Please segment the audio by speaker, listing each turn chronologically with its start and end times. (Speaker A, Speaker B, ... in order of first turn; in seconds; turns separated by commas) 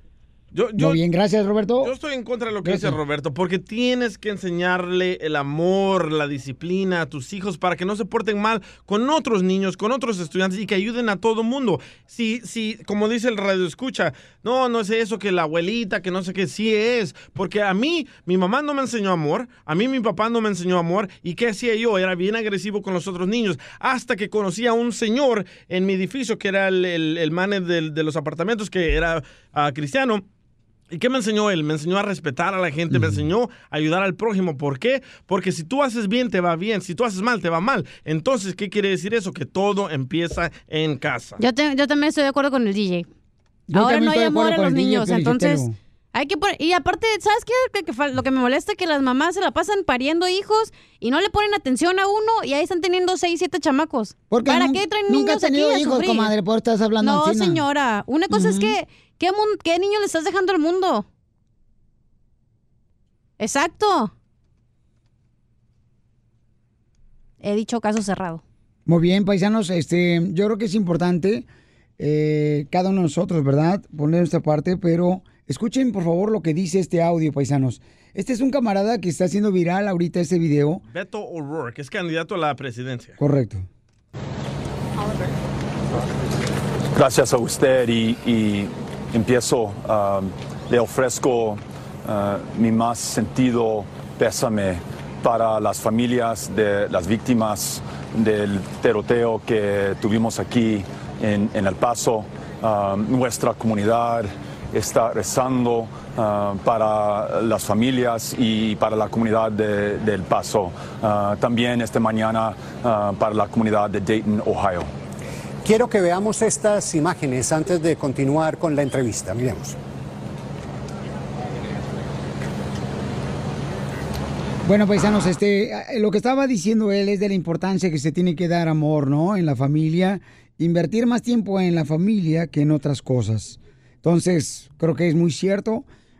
Speaker A: 0.5-1.0, Speaker B: 0.8-1.9, Speaker A: 1.8-30.2, Speaker B: 2.6-3.0, Speaker A: 30.9-41.4, Speaker B: 32.9-33.2, Speaker C: 41.4-43.1, Speaker B: 43.7-45.7, Speaker C: 43.7-56.3, Speaker B: 54.3-57.6, Speaker C: 57.0-61.0, Speaker B: 58.3-58.8, Speaker C: 63.4-64.1, Speaker C: 67.4-68.4, Speaker B: 68.8-71.5, Speaker B: 72.0-80.8, Speaker A: 80.9-83.1, Speaker B: 83.2-83.7, Speaker D: 86.9-114.9, Speaker E: 115.6-119.8, Speaker B: 124.6-135.8